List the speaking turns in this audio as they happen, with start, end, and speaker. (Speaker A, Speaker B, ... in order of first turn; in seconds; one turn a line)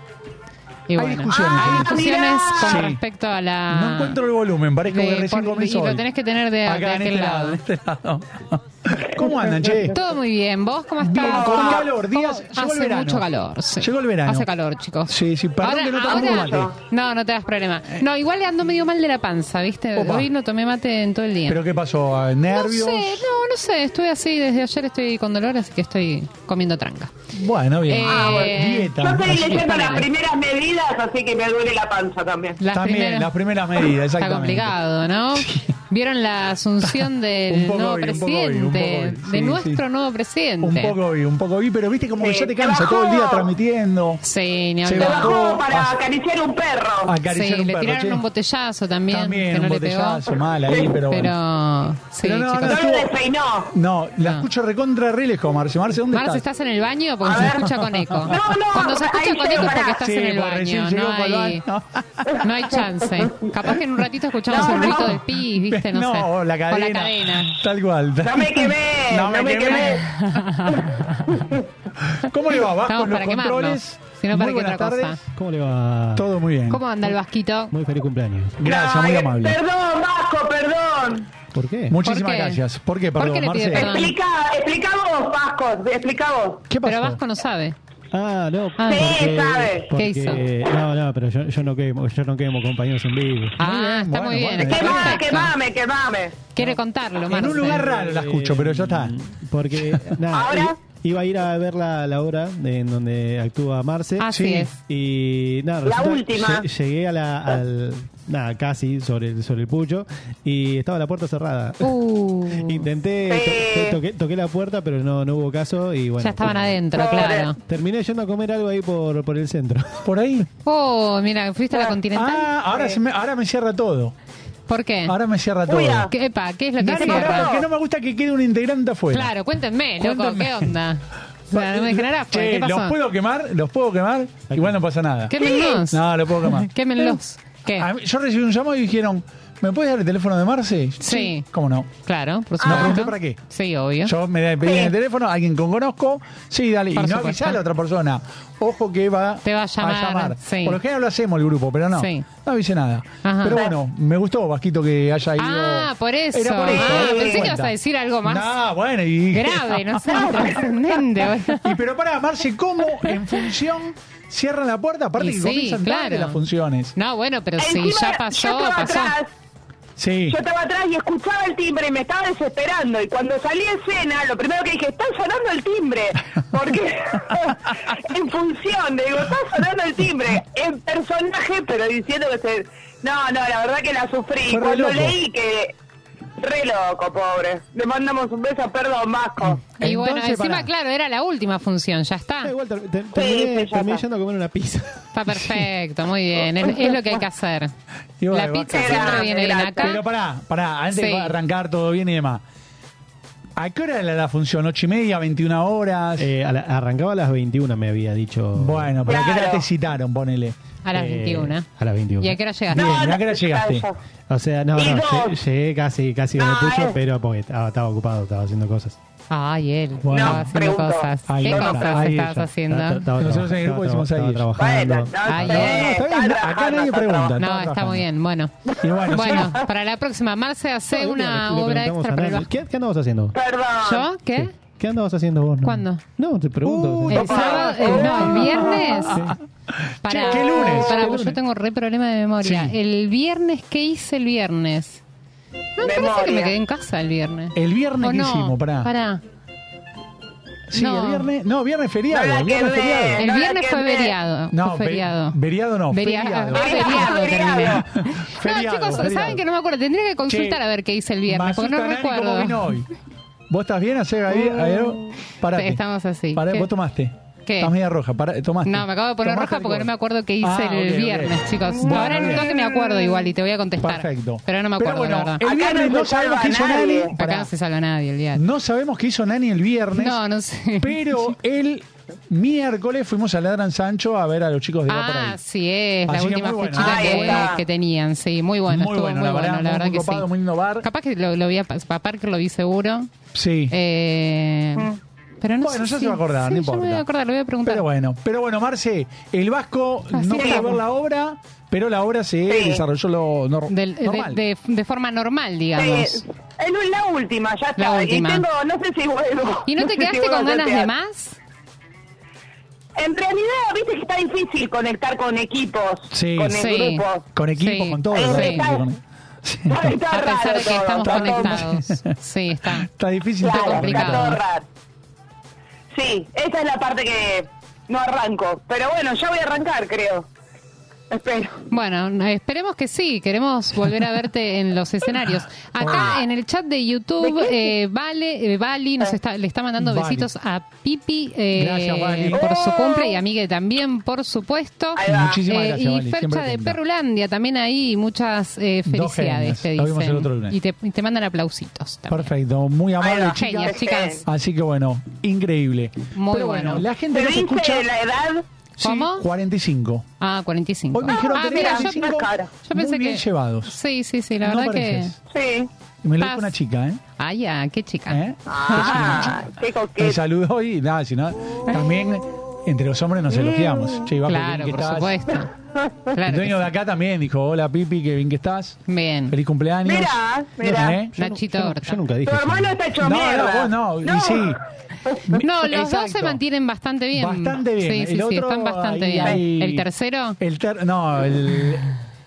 Speaker A: 0.9-4.2
Speaker B: 1.0-3.0
Speaker C: 1.3-2.9
Speaker B: 3.7-6.1
Speaker A: 4.9-7.6
Speaker B: 6.7-10.0
Speaker C: 9.2-9.8
Speaker A: 9.8-21.6
Speaker B: 11.0-13.3
Speaker C: 11.2-11.8
Speaker B: 13.8-14.5
Speaker B: 15.1-16.7
Speaker C: 16.1-16.7
Speaker B: 19.9-20.3
Speaker B: 21.5-23.2
Speaker A: 22.5-27.1
Speaker B: 27.3-29.6
Speaker A: 27.9-30.1
Speaker C: 28.1-32.6
Speaker A: 32.6-33.3
Speaker B: 32.7-34.8
Speaker A: 34.2-41.0
Speaker B: 35.4-35.7
Speaker B: 36.8-39.8
Speaker B: 40.6-44.2
Speaker C: 42.2-43.5
Speaker A: 44.2-45.4
Speaker B: 44.8-46.0
Speaker C: 45.0-47.1
Speaker B: 47.0-48.2
Speaker A: 47.2-50.3
Speaker B: 49.1-51.4
Speaker C: 50.7-51.0
Speaker A: 51.1-52.8
Speaker B: 52.2-53.1
Speaker C: 52.6-53.7
Speaker B: 53.7-56.5
Speaker A: 54.2-54.5
Speaker A: 56.1-61.6
Speaker C: 57.2-57.7
Speaker B: 57.3-58.4
Speaker C: 58.2-60.0
Speaker B: 59.5-62.5
Speaker A: 62.4-67.6
Speaker C: 64.5-65.2
Speaker B: 64.5-70.1
Speaker C: 68.2-70.0
Speaker A: 69.7-71.4
Speaker B: 72.0-75.2
Speaker A: 72.9-75.2
Speaker D: 75.3-76.3
Speaker B: 76.2-76.8
Speaker A: 76.7-77.7
Speaker D: 77.7-78.6
Speaker B: 78.6-79.6
Speaker C: 78.6-81.3
Speaker D: 81.5-82.0
Speaker B: 81.9-84.0
Speaker A: 82.0-82.6
Speaker A: 83.2-84.2
Speaker C: 83.7-86.7
Speaker B: 86.7-87.2
Speaker A: 86.8-87.8
Speaker D: 88.1-93.6
Speaker A: 88.8-89.2
Speaker C: 88.8-89.9
Speaker A: 90.0-90.4
Speaker B: 93.6-95.2
Speaker A: 93.6-95.5
Speaker C: 94.6-96.4
Speaker A: 96.5-97.9
Speaker B: 97.3-99.2
Speaker D: 97.6-104.3
Speaker B: 99.7-100.2
Speaker C: 100.3-100.8
Speaker A: 104.2-104.8
Speaker B: 104.3-104.7
Speaker D: 104.9-112.0
Speaker C: 105.8-106.7
Speaker A: 111.8-112.8
Speaker D: 112.5-116.9
Speaker C: 113.3-114.0
Speaker A: 116.2-117.6
Speaker C: 116.9-117.5
Speaker D: 117.7-120.1
Speaker B: 120.0-120.5
Speaker A: 120.7-122.5
Speaker B: 122.1-124.2
Speaker A: 124.7-125.2
Speaker B: 125.1-126.1
Speaker C: 125.7-126.1
Speaker A: 126.1-127.5
Speaker B: 126.8-129.3
Speaker C: 127.0-127.7
Speaker A: 129.1-133.0
Speaker B: 130.0-130.7
Speaker B: 131.5-135.3
Speaker A: 135.3-137.9
Speaker C: 135.3-135.8
Speaker B: 135.9-137.1
Speaker B: 137.7-141.9
Speaker A: 141.0-141.5
Speaker A: 142.0-144.1
Speaker C: 142.6-143.0
Speaker B: 142.6-143.4
Speaker B: 144.0-160.5
Speaker C: 144.6-144.9
Speaker A: 146.9-147.6
Speaker A: 149.4-150.8
Speaker A: 151.9-152.3
Speaker A: 153.2-153.6
Speaker A: 155.4-158.6
Speaker C: 156.7-157.5
Speaker A: 159.3-161.8
Speaker B: 161.2-166.9
Speaker A: 165.2-166.4
Speaker A: 166.9-169.2
Speaker C: 167.6-169.3
Speaker B: 170.0-170.4
Speaker C: 170.3-185.8
Speaker B: 184.5-185.2
Speaker C: 186.4-189.6
Speaker B: 189.4-190.7
Speaker A: 189.8-192.5
Speaker D: 192.4-195.1
Speaker C: 193.1-194.0
Speaker A: 195.1-197.8
Speaker B: 195.3-195.7
Speaker B: 198.2-202.4
Speaker A: 198.3-200.0
Speaker C: 198.7-200.0
Speaker A: 200.9-201.3
Speaker B: 203.6-206.3
Speaker D: 206.2-209.1
Speaker B: 208.6-210.6
Speaker C: 209.1-209.7
Speaker A: 210.8-213.1
Speaker D: 210.9-212.4
Speaker B: 212.7-213.9
Speaker C: 212.7-214.0
Speaker D: 214.3-219.0
Speaker C: 214.8-215.4
Speaker C: 216.4-217.0
Speaker A: 219.3-223.1
Speaker B: 220.0-220.6
Speaker C: 220.1-222.0
Speaker B: 221.3-222.5
Speaker D: 222.1-225.7
Speaker B: 223.2-224.5
Speaker C: 224.6-227.4
Speaker A: 225.3-225.9
Speaker B: 225.5-228.1
Speaker A: 227.4-232.5
Speaker B: 228.8-229.6
Speaker D: 230.9-233.3
Speaker C: 233.3-234.1
Speaker A: 233.8-234.5
Speaker D: 234.3-237.5
Speaker A: 235.6-236.0
Speaker B: 236.6-241.3
Speaker A: 237.1-239.2
Speaker C: 237.2-238.3
Speaker D: 238.4-239.4
Speaker A: 240.0-245.0
Speaker C: 240.4-240.9
Speaker D: 240.7-241.3
Speaker B: 242.4-242.8
Speaker A: 245.8-249.2
Speaker C: 245.8-246.6
Speaker B: 247.6-248.9
Speaker B: 250.7-253.3
Speaker A: 250.7-251.3
Speaker C: 252.1-254.1
Speaker A: 253.2-255.4
Speaker B: 254.5-259.4
Speaker A: 255.9-262.8
Speaker C: 256.5-257.9
Speaker B: 260.3-260.6
Speaker B: 261.3-262.9
Speaker B: 263.5-265.8
Speaker A: 264.5-264.8
Speaker A: 265.5-266.7
Speaker B: 266.3-272.5
Speaker A: 267.4-267.7
Speaker A: 268.6-275.4
Speaker C: 272.5-273.2
Speaker B: 273.8-277.5
Speaker C: 275.4-277.1
Speaker A: 277.2-278.4
Speaker B: 278.3-280.2
Speaker A: 279.9-281.2
Speaker B: 280.8-285.4
Speaker A: 284.9-290.3
Speaker B: 286.1-287.6
Speaker C: 286.8-287.6
Speaker B: 288.7-290.9
Speaker A: 290.8-293.1
Speaker B: 293.3-293.7
Speaker A: 293.7-294.9
Speaker A: 295.4-297.9
Speaker B: 295.6-297.1
Speaker B: 297.6-304.4
Speaker A: 300.1-300.8
Speaker C: 300.3-300.7
Speaker C: 302.5-302.8
Speaker A: 303.7-306.2
Speaker C: 305.8-310.9
Speaker A: 307.8-308.5
Speaker A: 309.7-311.4
Speaker C: 313.0-317.3
Speaker B: 316.1-316.7
Speaker A: 316.6-317.0
Speaker B: 317.4-320.0
Speaker A: 317.6-318.6
Speaker C: 318.1-318.9
Speaker C: 319.7-321.7
Speaker A: 320.1-322.9
Speaker B: 321.0-324.4
Speaker C: 323.4-324.7
Speaker A: 323.5-324.4
Speaker C: 325.9-330.3
Speaker C: 331.1-331.6
Speaker A: 331.7-352.3
Speaker B: 335.8-336.2
Speaker C: 335.9-336.2
Speaker C: 337.2-337.7
Speaker B: 339.8-340.3
Speaker B: 341.5-342.4
Speaker C: 342.4-343.1
Speaker C: 345.0-345.4
Speaker B: 345.0-346.8
Speaker B: 348.9-350.6
Speaker B: 352.1-357.9
Speaker C: 353.0-354.2
Speaker A: 353.4-354.3
Speaker A: 356.1-356.9
Speaker C: 357.1-358.4
Speaker B: 358.8-360.1
Speaker A: 358.8-359.3
Speaker A: 360.2-362.0
Speaker B: 360.9-363.8
Speaker C: 361.1-362.5
Speaker A: 362.6-365.1
Speaker B: 364.4-365.2
Speaker C: 365.3-365.7
Speaker B: 366.0-367.0
Speaker A: 366.2-366.6
Speaker A: 367.2-369.3
Speaker B: 368.1-375.2
Speaker C: 368.5-370.2
Speaker A: 374.3-375.5
Speaker A: 376.1-376.7
Speaker B: 376.2-381.2
Speaker A: 378.9-379.4
Speaker C: 379.8-381.0
Speaker D: 381.1-382.9
Speaker A: 381.2-382.0
Speaker C: 382.2-385.4
Speaker B: 383.0-384.6
Speaker B: 385.3-386.4
Speaker A: 385.4-390.4
Speaker B: 387.1-389.9
Speaker B: 390.4-391.9